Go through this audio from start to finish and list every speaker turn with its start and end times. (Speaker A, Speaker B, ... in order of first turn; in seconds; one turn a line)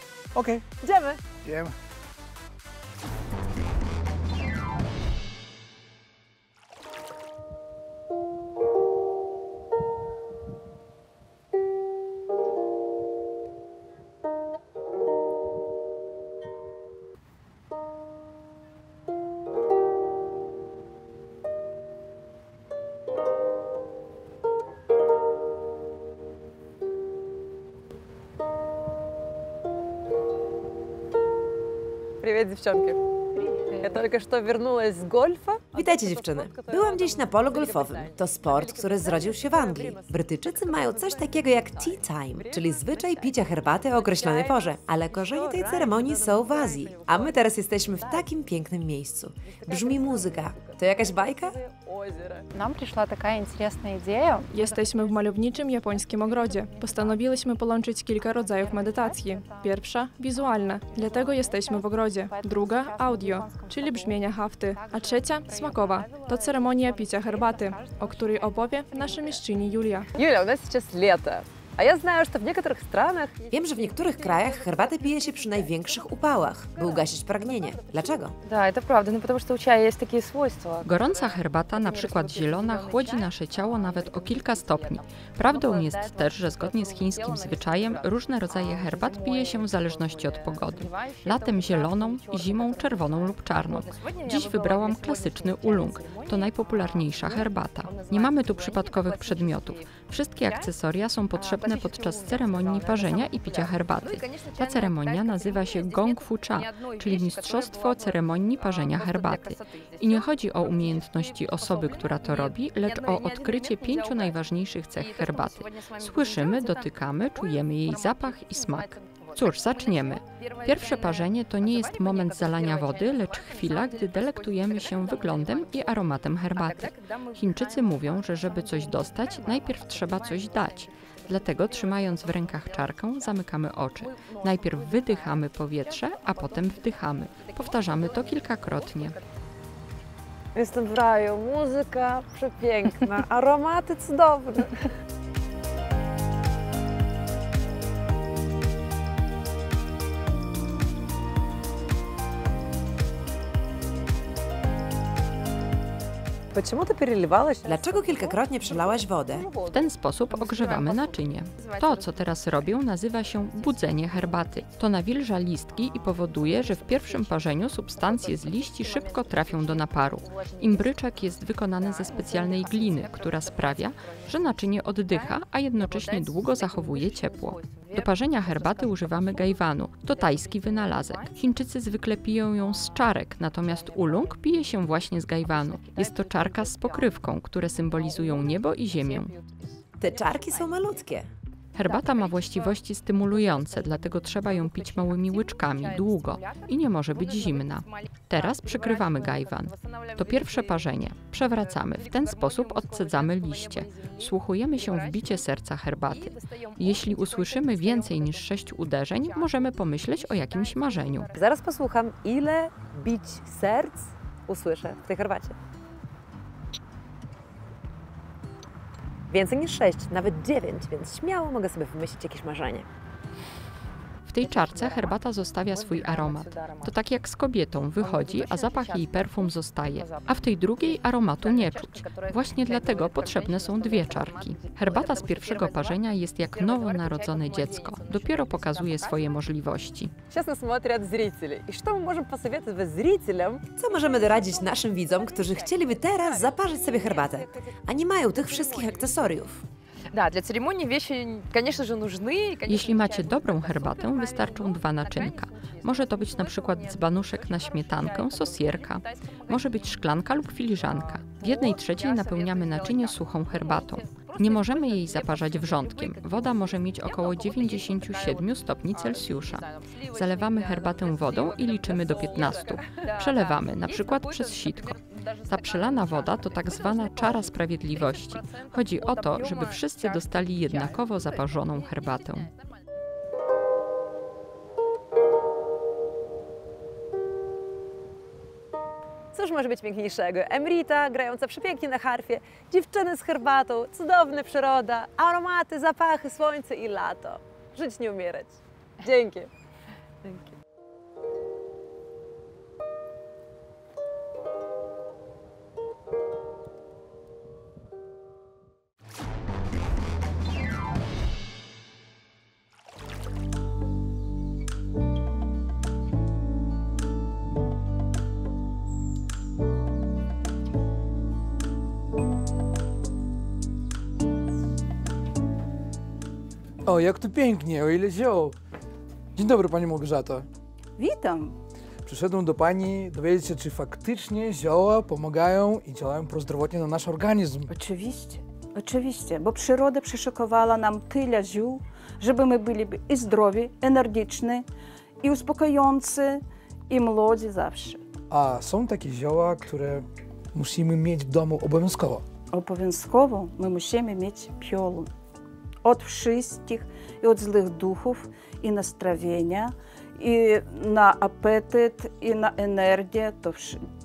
Speaker A: 0.3-0.6
Speaker B: 0.8-1.2
Speaker A: 1.4-1.7
Speaker B: 32.2-33.0
Speaker B: 33.5-43.4
Speaker C: 35.7-51.6
Speaker B: 44.0-44.6
Speaker B: 45.3-47.1
Speaker B: 49.5-50.4
Speaker B: 51.2-52.4
Speaker D: 52.5-54.5
Speaker E: 54.5-70.1
Speaker B: 70.2-73.4
Speaker C: 73.5-78.4
Speaker D: 78.4-81.2
Speaker F: 80.8-139.2
Speaker D: 81.8-83.3
Speaker D: 83.9-84.2
Speaker D: 88.5-89.6
Speaker D: 90.7-92.7
Speaker D: 93.7-96.5
Speaker D: 97.8-98.2
Speaker D: 101.3-103.7
Speaker D: 104.3-104.6
Speaker B: 140.5-144.9
Speaker B: 156.5-158.4
Speaker C: 157.7-159.5
Speaker F: 159.6-189.4
Speaker D: 160.4-161.0
Speaker D: 161.6-162.0
Speaker C: 190.0-191.3
Speaker F: 191.8-211.3
Speaker B: 211.3-215.6
Speaker B: 219.3-222.8
Speaker F: 224.2-240.1
Speaker D: 224.4-226.9
Speaker D: 228.0-230.5
Speaker D: 231.6-235.9
Speaker D: 236.5-239.1
Speaker B: 240.3-243.7
Speaker C: 243.8-249.6
Speaker B: 246.6-247.7
Speaker D: 250.1-253.9
Speaker F: 252.6-282.5
Speaker B: 289.3-299.5
Speaker B: 300.2-300.5
Speaker A: 326.9-328.6
Speaker A: 329.4-330.5
Speaker G: 331.0-331.6
Speaker A: 332.0-337.7
Speaker G: 337.7-344.7
Speaker G: 345.2-348.0
Speaker A: 348.3-352.2
Speaker G: 352.5-355.1
Speaker G: 355.8-363.8